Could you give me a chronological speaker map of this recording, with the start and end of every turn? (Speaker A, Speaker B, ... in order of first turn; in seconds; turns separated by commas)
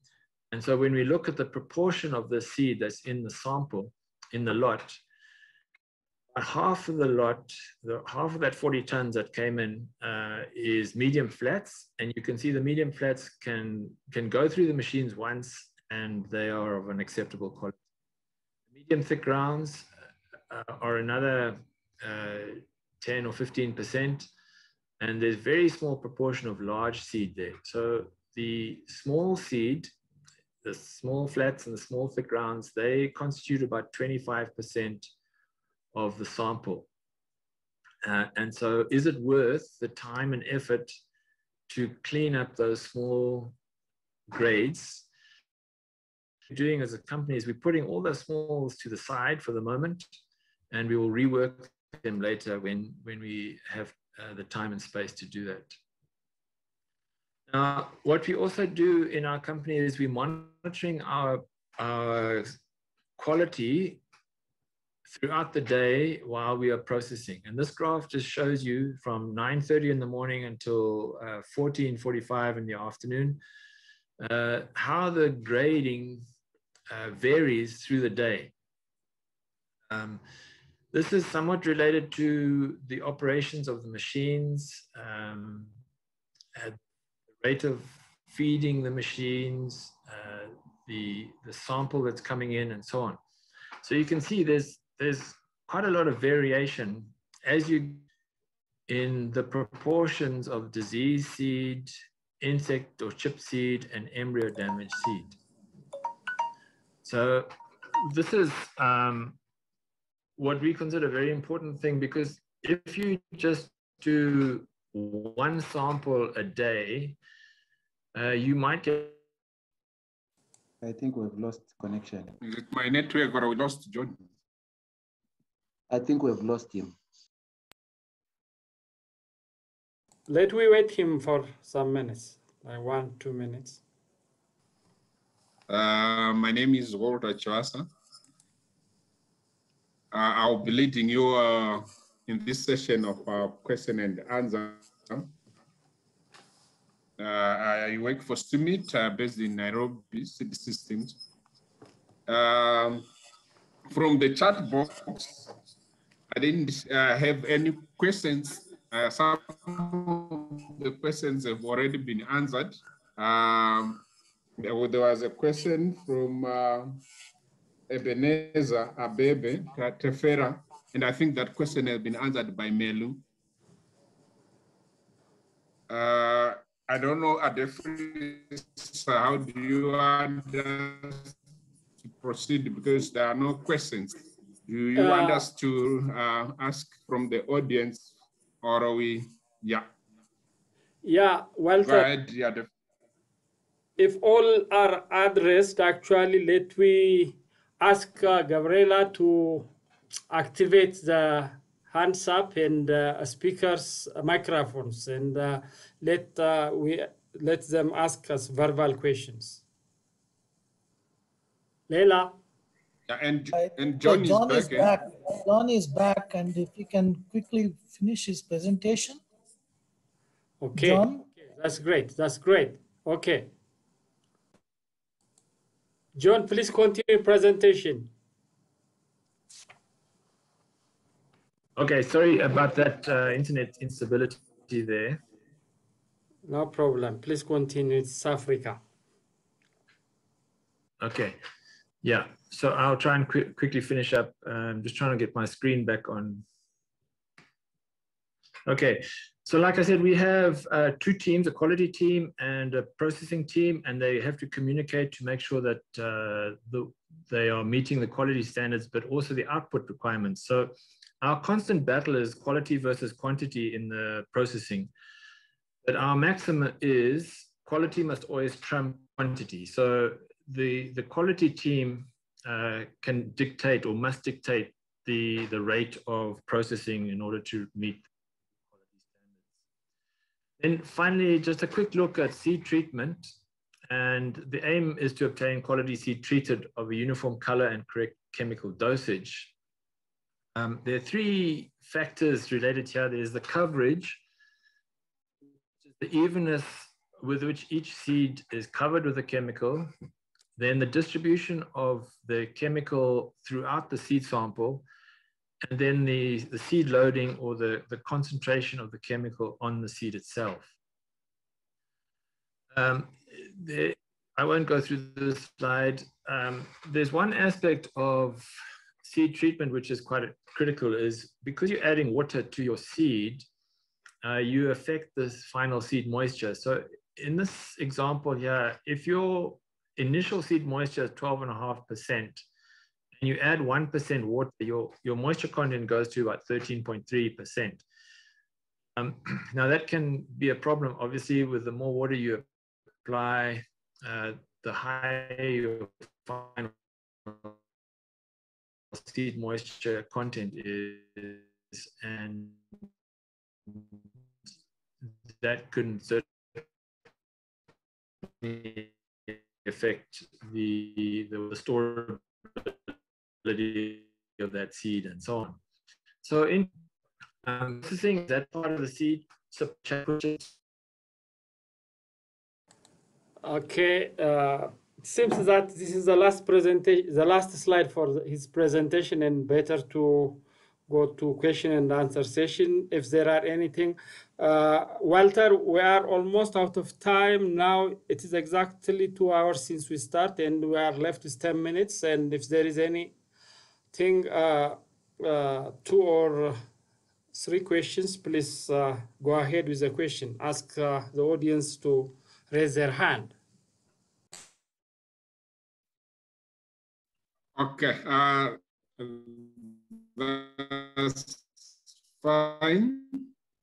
Speaker A: 0.5-5.0, Speaker A: 6.3-17.7, Speaker A: 18.7-19.9, Speaker A: 20.5-24.3, Speaker A: 25.0-29.9, Speaker A: 30.6-35.1, Speaker A: 35.9-36.9, Speaker A: 38.0-40.9, Speaker A: 41.7-43.5, Speaker A: 44.3-45.0, Speaker A: 46.5-50.1, Speaker A: 50.7-55.7, Speaker A: 57.5-62.6, Speaker A: 63.2-64.0, Speaker A: 65.0-73.4, Speaker A: 74.2-76.2, Speaker A: 76.9-78.5, Speaker A: 79.9-80.2, Speaker A: 80.9-85.7, Speaker A: 87.4-93.2, Speaker A: 93.8-98.0, Speaker A: 98.9-105.4, Speaker A: 107.0-109.4, Speaker A: 110.4-117.2, Speaker A: 118.1-119.2, Speaker B: 120.8-122.3, Speaker C: 122.4-124.2, Speaker B: 125.9-127.0, Speaker D: 130.3-133.8, Speaker C: 135.7-137.9, Speaker C: 140.1-145.3, Speaker C: 147.2-151.2, Speaker C: 152.3-153.1, Speaker C: 153.9-155.4, Speaker C: 156.3-164.0, Speaker C: 164.6-167.0, Speaker C: 167.9-173.2, Speaker C: 175.9-181.4, Speaker C: 182.0-189.9, Speaker D: 185.0-185.5, Speaker D: 191.0-192.1, Speaker C: 191.8-192.7, Speaker D: 194.0-199.7, Speaker D: 200.3-209.6, Speaker D: 211.9-212.3, Speaker C: 213.1-214.9, Speaker E: 213.5-219.2, Speaker D: 220.6-223.5, Speaker E: 220.8-221.2, Speaker D: 226.1-228.1, Speaker A: 231.8-235.2, Speaker D: 236.4-238.8, Speaker A: 241.0-241.4, Speaker A: 242.0-246.4, Speaker A: 248.7-264.9, Speaker A: 265.8-278.1, Speaker A: 280.6-283.3, Speaker A: 283.9-289.5, Speaker A: 290.5-294.2, Speaker A: 295.8-299.9, Speaker A: 300.6-304.9, Speaker A: 305.6-310.7, Speaker A: 312.7-318.5, Speaker A: 319.0-323.5, Speaker A: 324.2-332.4, Speaker A: 333.2-337.8, Speaker A: 338.9-342.4, Speaker A: 343.0-346.7, Speaker A: 347.2-347.5, Speaker A: 348.9-352.6, Speaker A: 355.3-356.6, Speaker A: 358.4-362.9, Speaker A: 363.4-365.6, Speaker A: 366.2-366.7, Speaker A: 367.4-370.5, Speaker D: 373.4-393.1, Speaker D: 393.9-396.6, Speaker D: 397.3-403.3, Speaker C: 407.5-411.5, Speaker C: 412.2-413.3